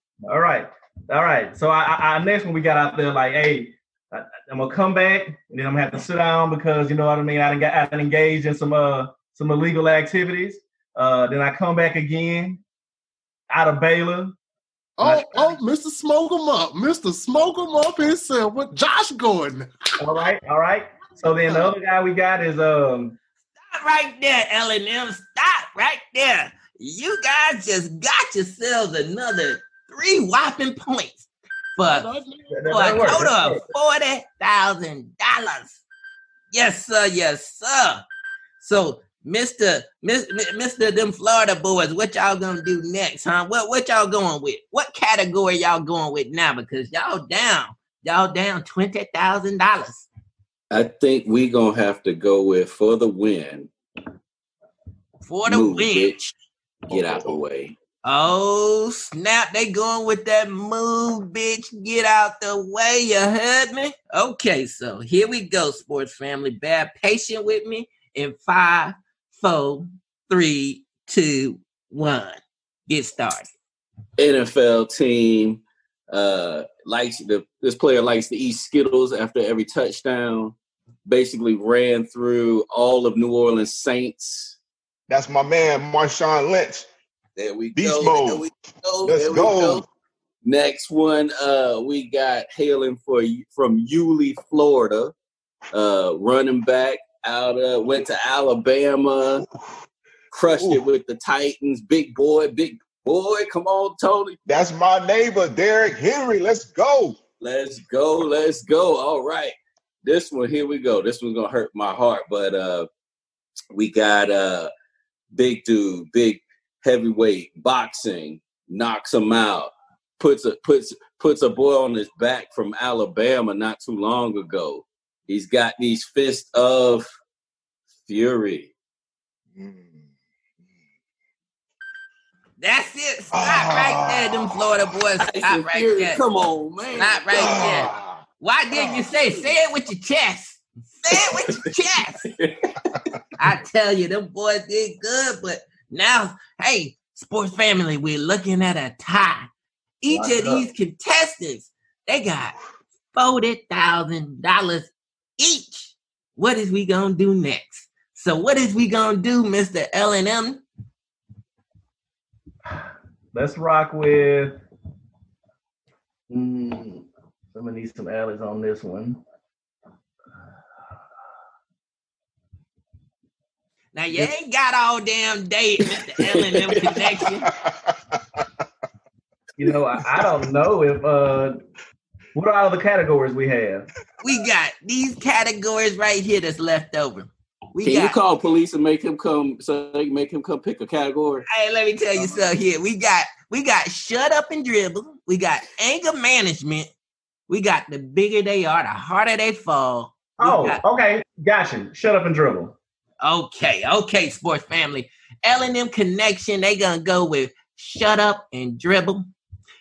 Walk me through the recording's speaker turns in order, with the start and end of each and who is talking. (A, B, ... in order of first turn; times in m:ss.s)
0:00.2-0:12.6 A
0:13.5-0:14.3 A
0:15.0-0:19.7 B
0:15.0-0:15.6 A
0:20.0-0:23.2 A
0:23.7-0:32.1 C
0:31.9-0:33.0 B
0:32.5-0:33.6 A
0:32.7-0:35.8 C
0:36.5-0:38.0 C
0:38.6-0:50.1 C
0:50.7-0:53.7 D
0:55.2-0:56.1 C
0:55.4-0:56.3 D
0:56.9-0:57.7 D
0:58.0-1:13.5 C
1:14.2-1:24.6 D
1:25.1-1:26.9 E
1:27.4-1:29.8 D
1:27.8-1:28.5 E
1:29.0-1:29.8 E
1:30.4-1:35.1 D
1:35.7-1:39.5 D
1:40.3-1:44.4 D
1:44.5-1:47.2 E
1:47.4-1:52.9 D
1:53.7-1:54.7 D
1:55.3-2:07.1 D
2:08.0-2:08.7 D
2:09.6-2:09.9 E
2:12.6-2:16.2 C
2:13.4-2:14.4 E
2:15.2-2:17.9 D
2:16.9-2:22.2 C
2:17.3-2:18.2 E
2:18.7-2:19.1 E
2:22.4-2:22.9 D
2:23.4-2:29.5 C
2:30.0-2:32.5 C
2:30.1-2:30.6 A
2:33.1-2:40.6 C
2:42.7-2:44.6 A
2:46.3-2:49.2 A
2:53.9-2:57.4 C
2:56.5-2:57.0 D
2:59.6-3:01.5 A
3:02.3-3:03.9 A
3:04.2-3:08.2 C
3:07.8-3:11.4 D
3:11.5-3:16.9 C
3:17.5-3:20.8 C
3:20.4-3:22.8 A
3:23.2-3:29.2 C